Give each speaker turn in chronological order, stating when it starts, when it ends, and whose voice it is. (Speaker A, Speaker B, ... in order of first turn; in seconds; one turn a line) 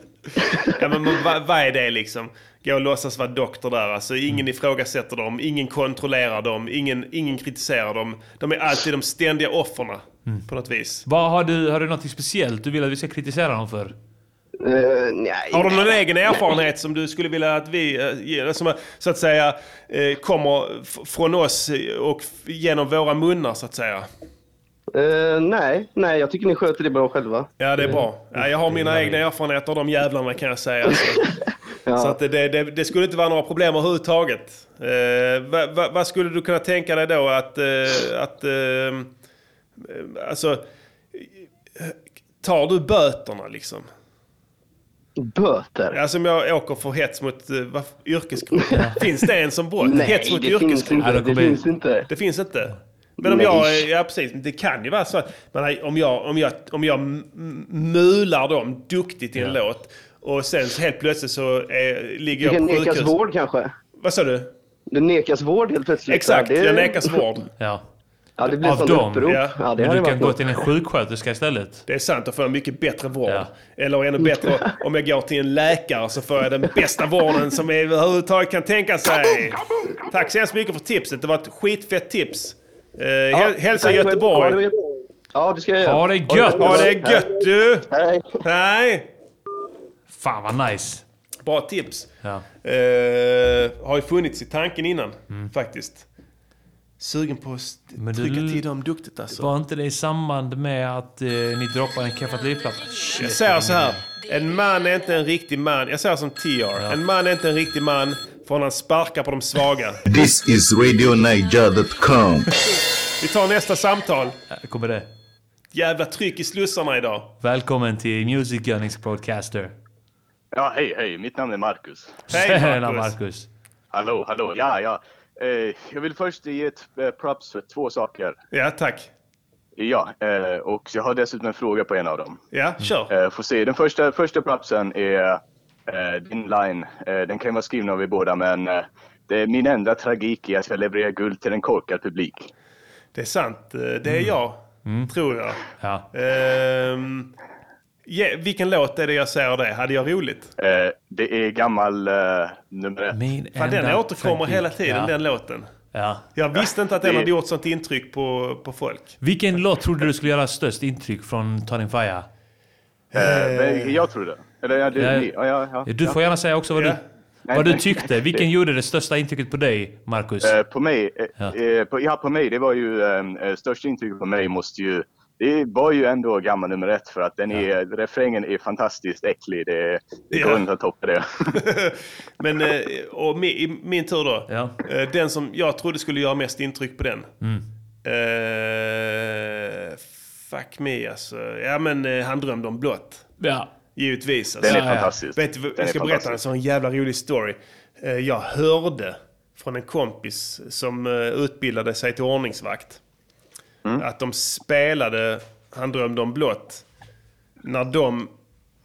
Speaker A: 0.6-11.1
Speaker B: 11.1-13.9
Speaker C: 14.6-15.9
Speaker A: 15.5-24.1
Speaker C: 24.9-27.5
Speaker A: 27.6-31.3
Speaker B: 28.7-29.2
Speaker C: 31.9-32.2
Speaker A: 32.0-39.1
Speaker A: 39.8-40.6
Speaker A: 41.1-43.9
Speaker C: 45.2-46.0
Speaker A: 45.9-51.2
Speaker B: 48.7-49.0
Speaker C: 49.8-52.1
Speaker B: 51.0-51.6
Speaker A: 52.1-63.1
Speaker C: 53.2-53.9
Speaker C: 62.4-63.7
Speaker A: 64.0-64.5
Speaker C: 64.9-67.2
Speaker A: 66.1-67.5
Speaker B: 67.6-67.8
Speaker C: 68.4-70.4
Speaker B: 68.5-71.8
Speaker A: 69.2-69.6
Speaker A: 71.9-84.6
Speaker C: 83.3-87.4
Speaker B: 85.8-86.9
Speaker A: 86.6-87.9
Speaker C: 87.9-88.4
Speaker A: 88.4-89.1
Speaker B: 90.1-91.0
Speaker A: 91.4-92.1
Speaker A: 92.6-96.0
Speaker A: 97.0-99.5
Speaker B: 98.0-98.6
Speaker B: 99.3-104.0
Speaker A: 103.2-110.0
Speaker D: 110.0-112.5
Speaker A: 113.2-114.4
Speaker B: 114.5-115.1
Speaker A: 115.7-117.3
Speaker B: 117.4-119.7
Speaker E: 120.5-122.2
Speaker B: 122.3-123.5
Speaker A: 122.3-123.1
Speaker E: 123.9-128.4
Speaker A: 128.5-129.1
Speaker E: 129.8-132.4
Speaker A: 132.5-133.1
Speaker E: 133.1-142.5
Speaker A: 143.2-145.6
Speaker B: 144.1-145.1
Speaker B: 145.8-146.1
Speaker A: 146.1-147.3
Speaker A: 148.1-150.5
Speaker E: 150.6-153.2
Speaker B: 153.1-155.1
Speaker A: 153.6-155.7
Speaker B: 155.9-156.2
Speaker A: 156.3-159.2
Speaker E: 156.6-157.3
Speaker B: 159.2-162.3
Speaker A: 163.1-164.0
Speaker E: 163.2-166.2
Speaker B: 165.0-165.3
Speaker B: 165.8-167.0
Speaker A: 166.7-167.0
Speaker E: 167.5-168.4
Speaker B: 167.5-170.6
Speaker E: 170.4-181.6
Speaker A: 180.3-180.7
Speaker A: 181.6-187.3
Speaker B: 184.5-184.8
Speaker A: 188.1-193.3
Speaker B: 193.4-193.7
Speaker A: 194.0-203.0
Speaker E: 194.6-196.4
Speaker B: 194.6-195.1
Speaker A: 204.0-206.8
Speaker A: 207.6-208.3